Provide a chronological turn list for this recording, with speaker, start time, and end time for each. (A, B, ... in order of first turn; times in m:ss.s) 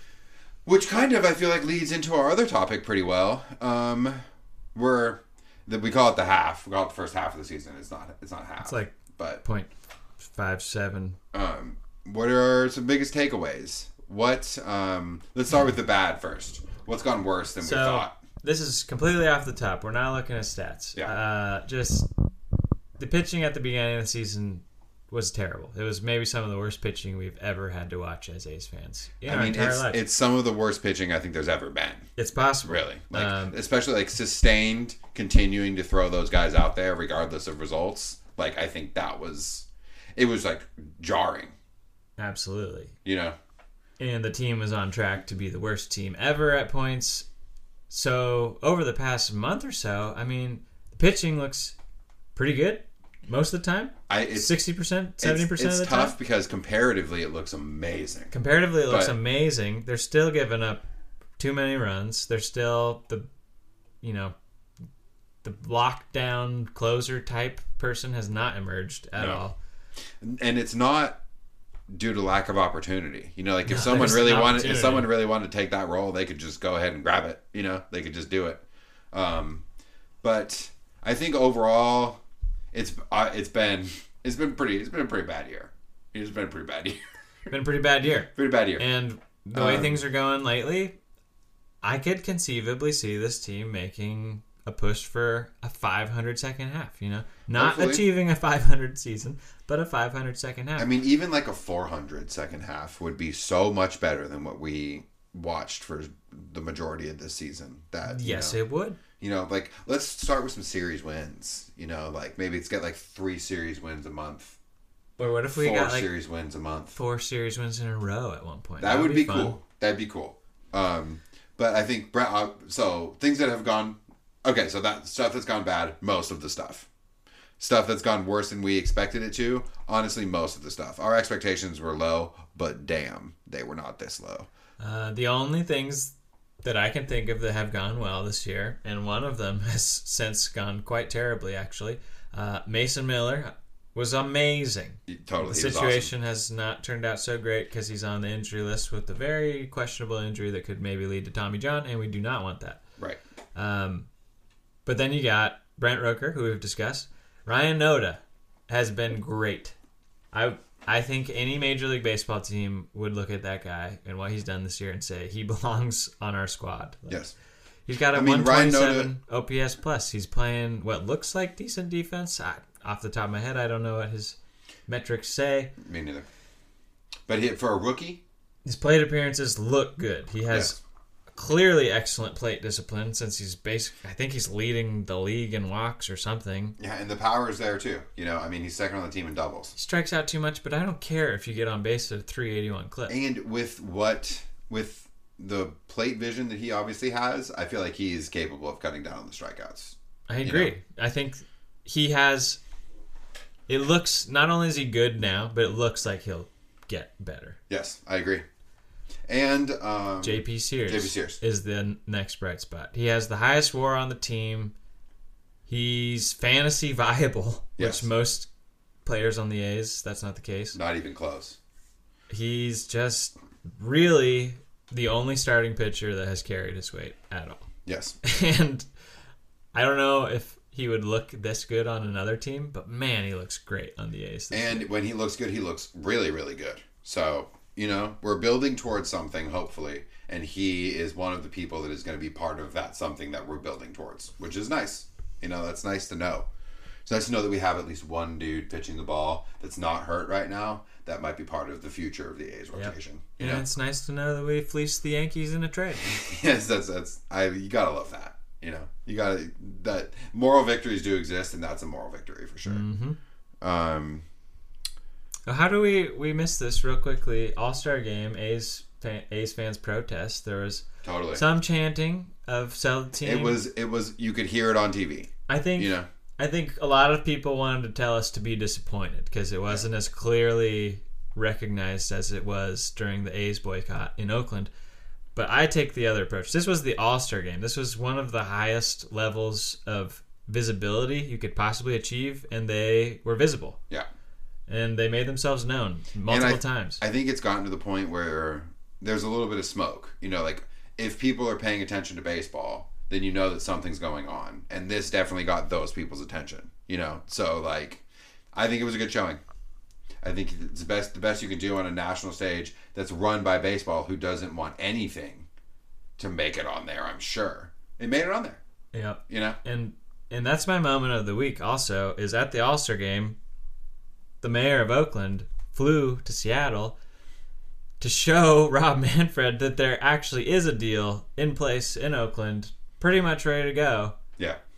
0:00.7-0:04.2 A
0:04.8-0:09.4 A
0:08.6-0:11.2 B
0:11.3-0:18.2 A
0:17.6-0:22.1 B
0:23.0-0:30.0 B
0:29.3-0:32.1 A
0:32.2-0:33.6 B
0:32.6-0:41.5 A
0:42.2-0:43.0 B
0:43.0-0:43.4 A
0:44.0-0:47.3 B
0:47.9-0:51.8 B
0:52.4-0:56.2 B
0:54.1-0:54.6 A
0:55.2-0:58.3 A
0:58.3-1:00.8 B
0:58.9-0:59.2 A
1:01.4-1:03.3 B
1:04.0-1:04.3 B
1:05.4-1:09.6 B
1:09.2-1:09.4 A
1:10.2-1:11.2 A
1:11.9-1:19.6 A
1:13.7-1:15.1 B
1:20.2-1:22.2 A
1:22.7-1:27.0 A
1:27.5-1:31.0 B
1:28.4-1:28.9 A
1:29.5-1:30.0 A
1:31.8-1:40.9 B
1:37.5-1:38.0 A
1:40.8-1:48.6 A
1:48.0-1:49.0 B
1:49.2-1:54.6 A
1:55.2-1:56.1 B
1:55.5-1:57.0 A
1:57.0-1:59.6 B
1:58.8-2:06.9 A
2:07.6-2:14.5 A
2:14.8-2:32.8 B
2:25.1-2:26.1 A
2:33.6-2:34.1 B
2:34.9-2:39.8 B
2:40.3-2:47.2 B
2:47.9-2:54.4 B
2:48.1-2:49.1 A
2:54.9-2:55.8 B
2:55.8-2:56.2 A
2:57.3-2:58.2 A
2:58.6-3:00.8 B
3:00.5-3:00.8 A
3:01.4-3:06.8 B
3:06.8-3:09.7 A
3:09.8-3:13.1 B
3:13.1-3:20.7 A
3:20.3-3:22.6 B
3:23.7-3:27.6 B
3:27.7-3:28.4 A
3:29.3-3:31.4 A
3:30.2-3:34.8 B
3:35.7-3:38.5 B
3:37.8-3:38.1 A
3:39.0-3:40.8 B
3:40.7-3:41.6 A
3:42.3-3:47.7 B
3:47.9-3:48.2 A
3:48.2-3:48.9 B
3:49.7-3:54.9 B
3:54.5-4:06.5 A
4:07.1-4:13.6 A
4:12.8-4:16.2 B
4:16.0-4:22.8 A
4:22.6-4:23.2 B
4:23.6-4:24.2 A
4:25.5-4:33.6 B
4:31.0-4:31.4 A
4:33.2-4:36.1 A
4:35.5-4:44.7 B
4:45.4-4:53.8 B
4:54.7-4:57.0 B
4:56.3-5:08.0 A
5:08.5-5:09.4 A
5:10.2-5:15.5 A
5:16.2-5:18.6 A
5:18.9-5:23.4 B
5:19.3-5:19.6 A
5:24.4-5:27.0 B
5:28.0-5:34.2 B